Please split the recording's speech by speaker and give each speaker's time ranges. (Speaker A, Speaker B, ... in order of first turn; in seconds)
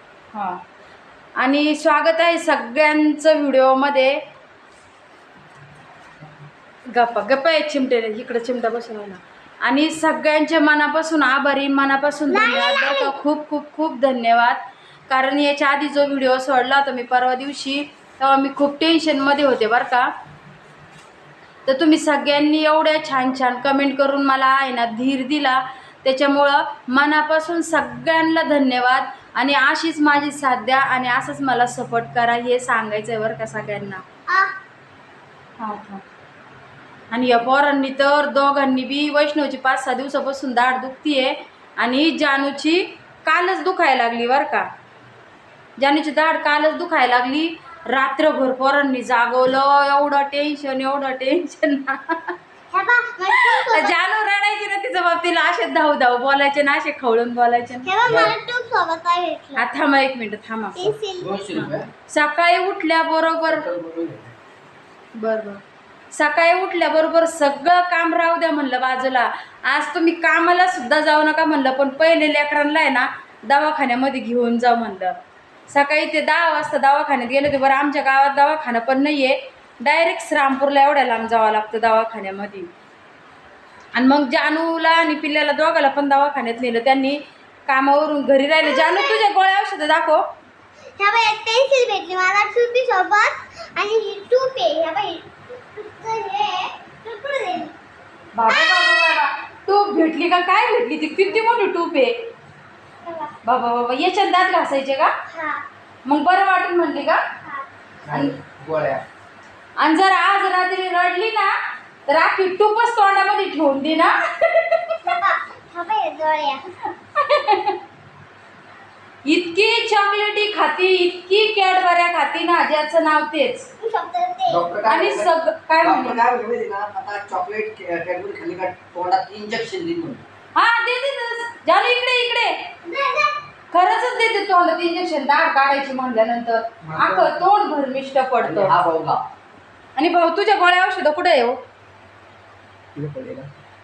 Speaker A: 1.4-4.2, 6.9-20.1, 21.6-34.0, 35.6-36.0, 37.1-44.6, 45.8-52.3, 53.3-58.3, 59.6-60.9, 61.5-63.6, 65.2-65.6, 66.1-75.2, 75.7-82.7, 83.9-90.2, 98.3-102.2, 103.4-105.1, 106.0-107.2, 108.1-108.4, 109.8-111.5, 112.1-115.0, 116.8-117.8, 119.2-123.7, 124.9-126.2, 130.6-132.6, 133.7-138.8, 139.9-141.6
Speaker B: 12.3-13.1, 34.3-34.5, 52.7-53.9, 57.8-59.7, 60.8-61.4, 88.6-89.2, 91.0-97.7, 98.5-99.1, 103.0-103.3, 105.3-105.6, 115.0-116.6, 123.8-124.7, 132.8-133.4
Speaker C: 58.0-58.4, 61.1-61.9, 63.5-64.3, 108.0-109.0, 124.5-125.3, 125.8-130.2, 136.8-137.4, 138.4-139.2, 142.9-143.5